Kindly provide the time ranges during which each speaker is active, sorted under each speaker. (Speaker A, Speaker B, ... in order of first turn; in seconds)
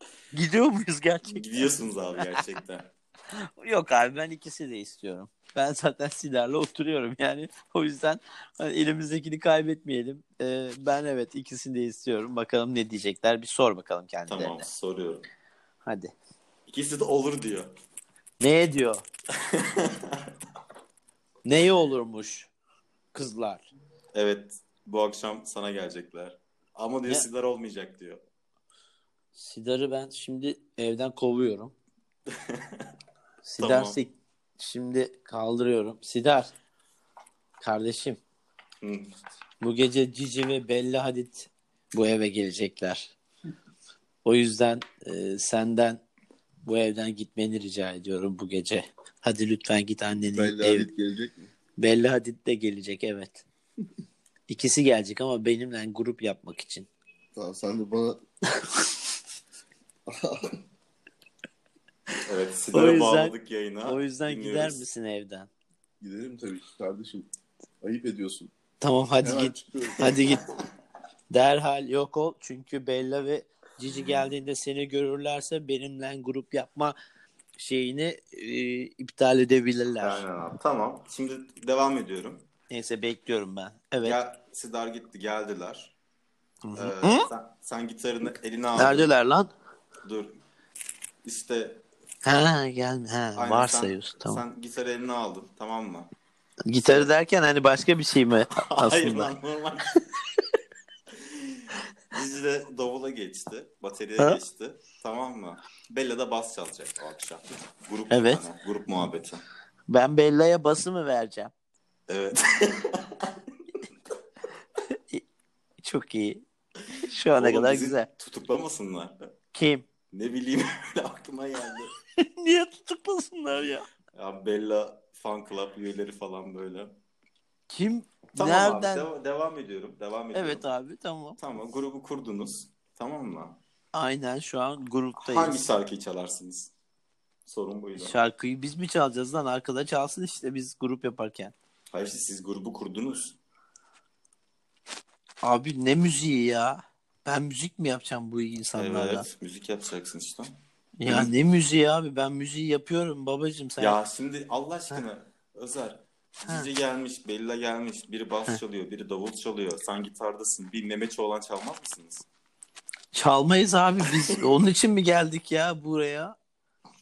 Speaker A: 0.3-1.7, 3.3-14.6, 15.8-16.1, 18.4-19.0, 21.4-22.5, 23.1-23.7, 29.3-31.7, 33.4-36.5, 37.6-38.2, 39.6-43.1, 44.2-46.0, 46.6-50.9, 51.8-53.4, 54.5-56.9, 62.7-63.3, 63.8-65.5, 68.8-70.4, 71.3-77.0, 77.6-80.2, 82.7-84.2, 86.6-87.3, 88.8-89.5, 92.2-94.4, 96.7-99.3, 108.1-108.4, 109.9-111.5, 114.9-115.2, 115.8-116.4, 117.0-118.1, 119.5-119.9, 122.2-123.9, 127.7-129.1, 130.3-131.4, 133.9-135.6, 138.0-141.5, 145.4-149.2, 151.0-154.0, 163.1-166.3
Speaker B: 1.3-2.9, 14.3-15.2, 16.7-17.7, 19.4-20.3, 24.1-28.2, 32.3-32.9, 33.6-34.0, 38.8-39.1, 62.2-64.8, 80.0-82.5, 84.0-85.9, 86.7-89.1, 90.0-90.4, 91.2-91.8, 93.3-96.1, 98.5-100.0, 101.1-109.4, 112.1-113.4, 117.3-119.2, 120.1-121.9, 124.1-127.0, 128.3-130.7, 131.4-133.6, 135.2-136.7, 137.4-138.2, 141.9-143.4, 148.8-151.3, 153.8-162.2
Speaker C: 50.3-51.5, 57.3-58.2, 60.1-60.5, 66.0-67.3, 67.8-68.5, 69.2-70.4